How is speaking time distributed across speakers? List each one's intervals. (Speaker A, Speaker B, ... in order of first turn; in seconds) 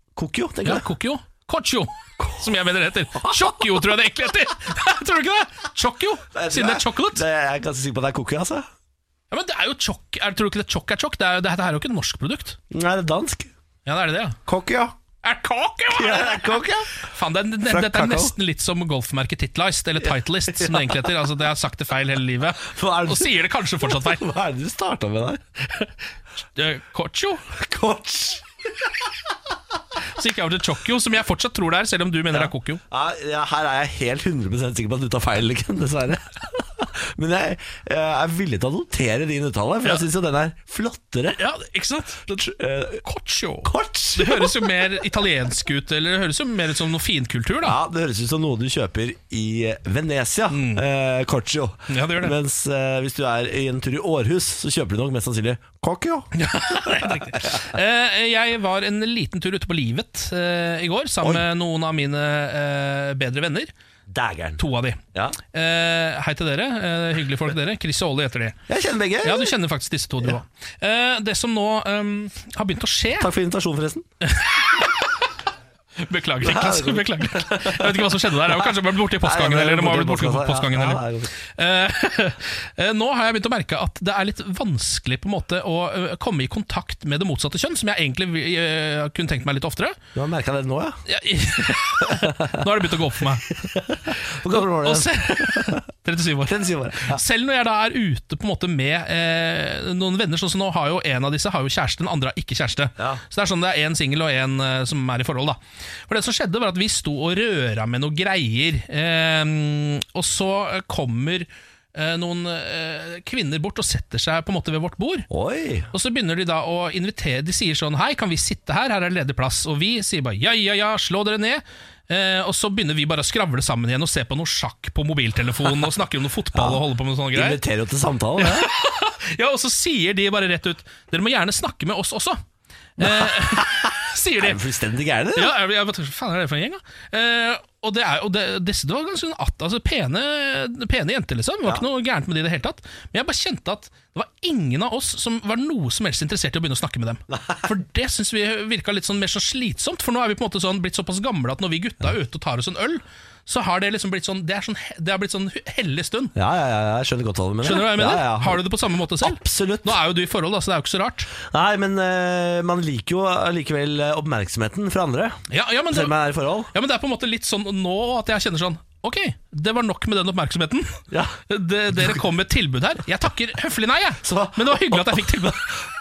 Speaker A: 0.2-0.9, 2.2-2.5, 3.1-3.7, 6.3-8.7, 12.7-13.5, 14.5-14.9, 15.9-17.0, 17.7-18.3, 20.5-21.1, 22.7-25.8, 27.6-28.5, 32.3-41.4, 42.4-43.0, 43.6-44.7, 47.6-56.3, 56.8-57.6, 64.1-64.6, 68.7-69.5, 73.2-74.0, 76.4-81.3, 90.2-91.0, 92.1-92.6, 93.5-95.8, 96.5-97.2, 115.3-115.9, 126.5-126.8, 127.3-128.7, 133.0-135.5, 147.3-147.6, 156.4-158.6, 159.2-159.9, 161.5-166.7, 171.1-171.4, 171.9-172.2, 174.2-175.9
Speaker B: 0.6-7.2, 9.3-12.6, 13.9-14.4, 15.2-24.2, 26.6-27.4, 30.1-32.8, 41.4-42.5, 43.0-47.8, 50.5-50.9, 51.9-52.4, 56.3-63.7, 64.6-65.0, 65.5-68.6, 69.2-73.3, 74.2-75.3, 76.0-90.0, 91.1-93.5, 94.5-115.3, 115.9-127.6, 128.4-132.4, 133.0-134.6, 135.3-156.3, 157.6-161.3, 165.5-166.2, 166.7-175.8